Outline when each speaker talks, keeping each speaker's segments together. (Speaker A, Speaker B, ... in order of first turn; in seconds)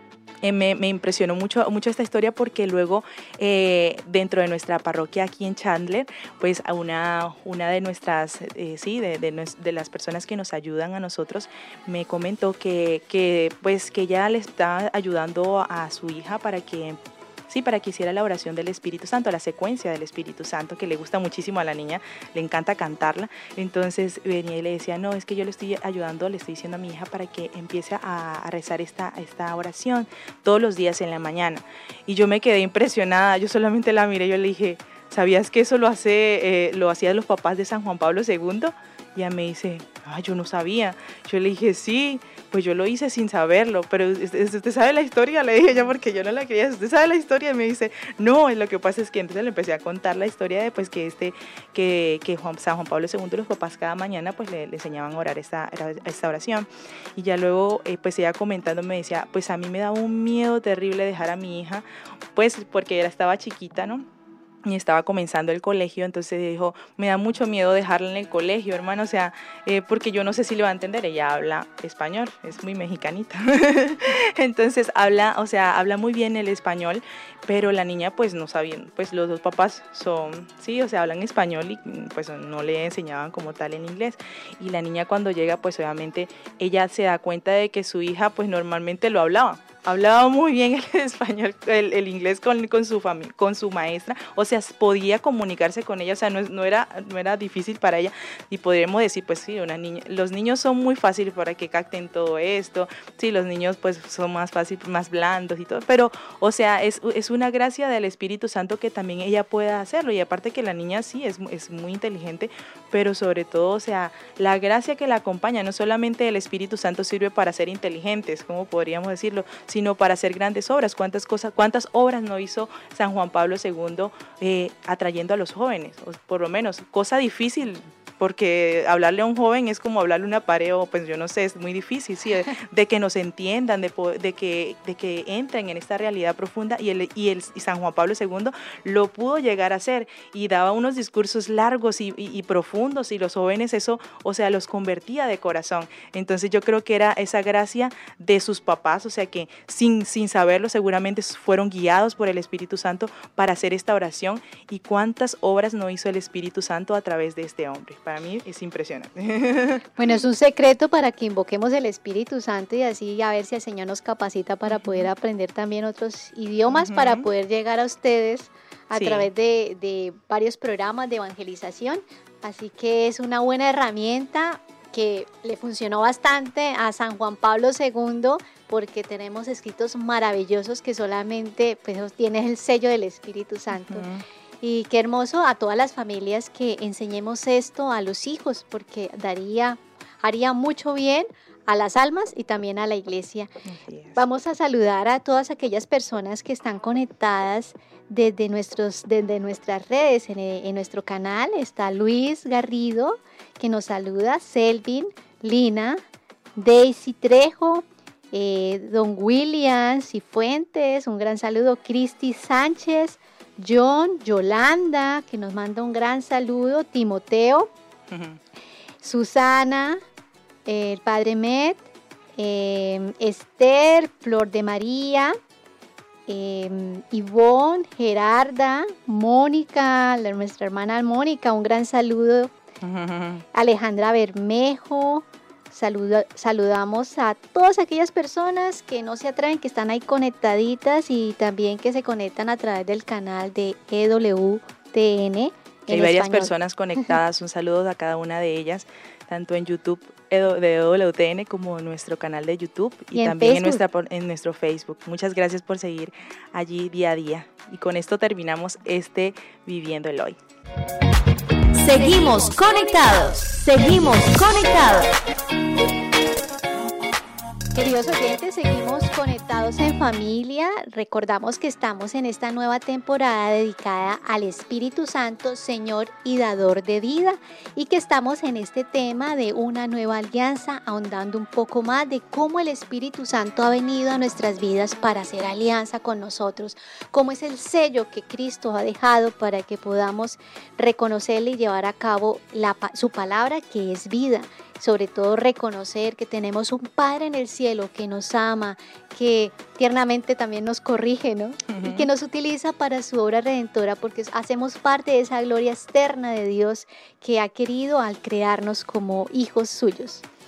Speaker A: 0.4-64.1, 64.7-160.1, 164.7-165.1, 166.7-167.3, 168.9-169.3, 183.7-184.2, 193.7-194.2, 218.1-218.4, 232.8-233.4, 245.9-260.4, 301.7-302.1
Speaker B: 160.0-184.1, 184.6-193.5, 194.2-206.0, 206.6-217.7, 219.0-220.0, 220.7-221.8, 222.4-225.4, 226.3-232.5, 233.5-246.5, 253.1-253.8, 267.7-310.2
Speaker C: 261.8-265.1